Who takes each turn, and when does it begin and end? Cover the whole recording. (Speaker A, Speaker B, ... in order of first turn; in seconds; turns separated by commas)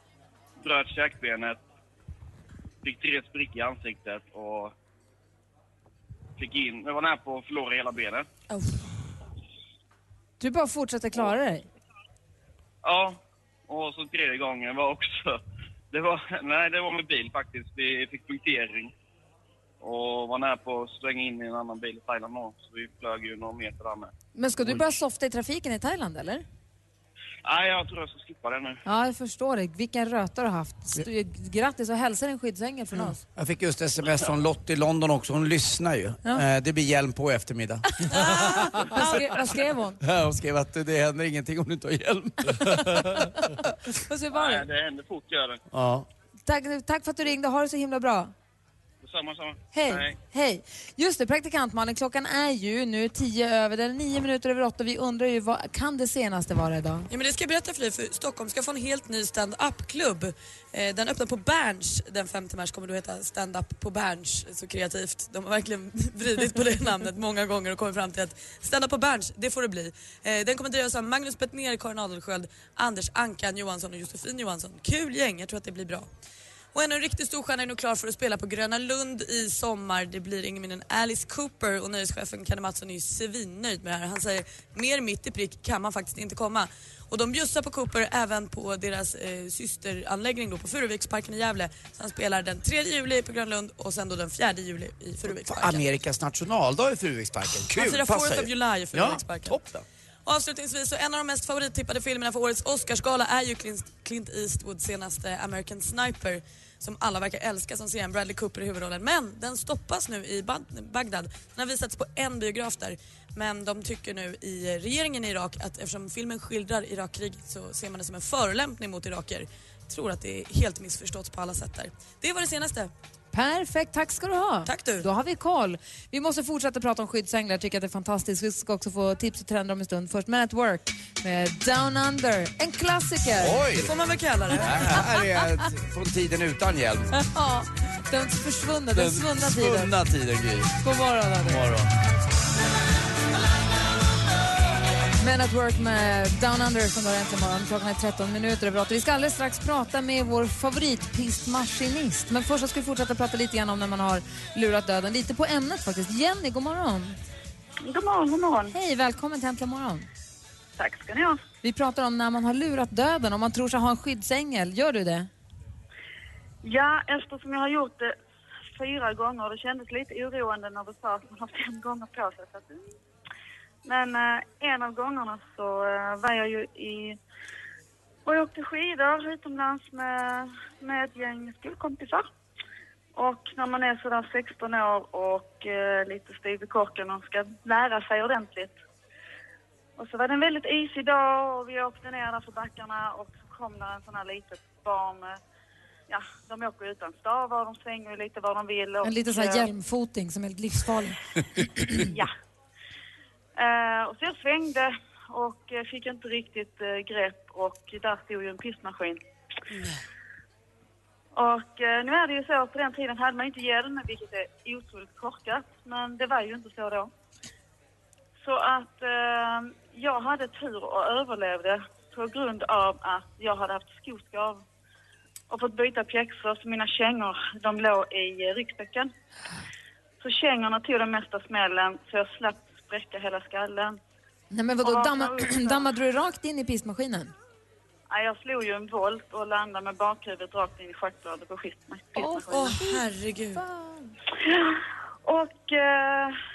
Speaker A: 0.6-1.6, Speaker A: 2.8-4.7, Speaker A: 6.4-8.3, Speaker B: 10.4-11.7, Speaker A: 12.8-15.4, Speaker A: 15.9-18.9, Speaker A: 19.8-24.1, Speaker B: 24.3-26.4, Speaker A: 27.4-28.8, Speaker B: 28.8-33.2, Speaker C: 33.3-39.4, Speaker B: 38.1-40.0, Speaker C: 40.0-43.3, Speaker B: 42.7-43.2, Speaker B: 44.0-44.6, Speaker A: 44.3-45.6, Speaker C: 45.7-46.1, Speaker B: 46.5-48.3, Speaker A: 49.0-50.2, Speaker B: 49.7-57.1, Speaker D: 57.1-76.1, Speaker D: 76.7-95.8, Speaker C: 95.2-99.8, Speaker D: 97.7-99.6, Speaker D: 100.2-122.9, Speaker B: 123.3-133.7, Speaker D: 124.7-125.1, Speaker C: 133.4-133.9, Speaker D: 133.7-135.1, Speaker C: 134.5-137.1, Speaker B: 137.3-139.9, Speaker C: 138.9-140.7, Speaker B: 140.8-141.6, Speaker C: 141.4-141.9, Speaker B: 145.2-157.2, Speaker E: 157.8-158.7, Speaker B: 158.7-160.1, Speaker E: 160.8-161.4, Speaker B: 161.6-165.3, Speaker E: 166.6-168.1, Speaker E: 168.8-172.8, Speaker E: 173.8-177.2, Speaker E: 178.2-182.3, Speaker E: 183.2-188.7, Speaker E: 190.0-195.4, Speaker E: 196.1-199.7, Speaker B: 199.0-201.2, Speaker B: 201.8-202.1, Speaker E: 201.9-202.3, Speaker E: 203.6-209.2, Speaker E: 211.3-217.1, Speaker E: 218.4-224.6, Speaker E: 225.5-229.1, Speaker E: 230.2-234.0, Speaker B: 234.5-237.3, Speaker E: 234.8-235.9, Speaker E: 238.1-242.8, Speaker D: 242.2-243.6, Speaker B: 242.2-243.0, Speaker B: 243.6-244.1, Speaker E: 244.4-246.4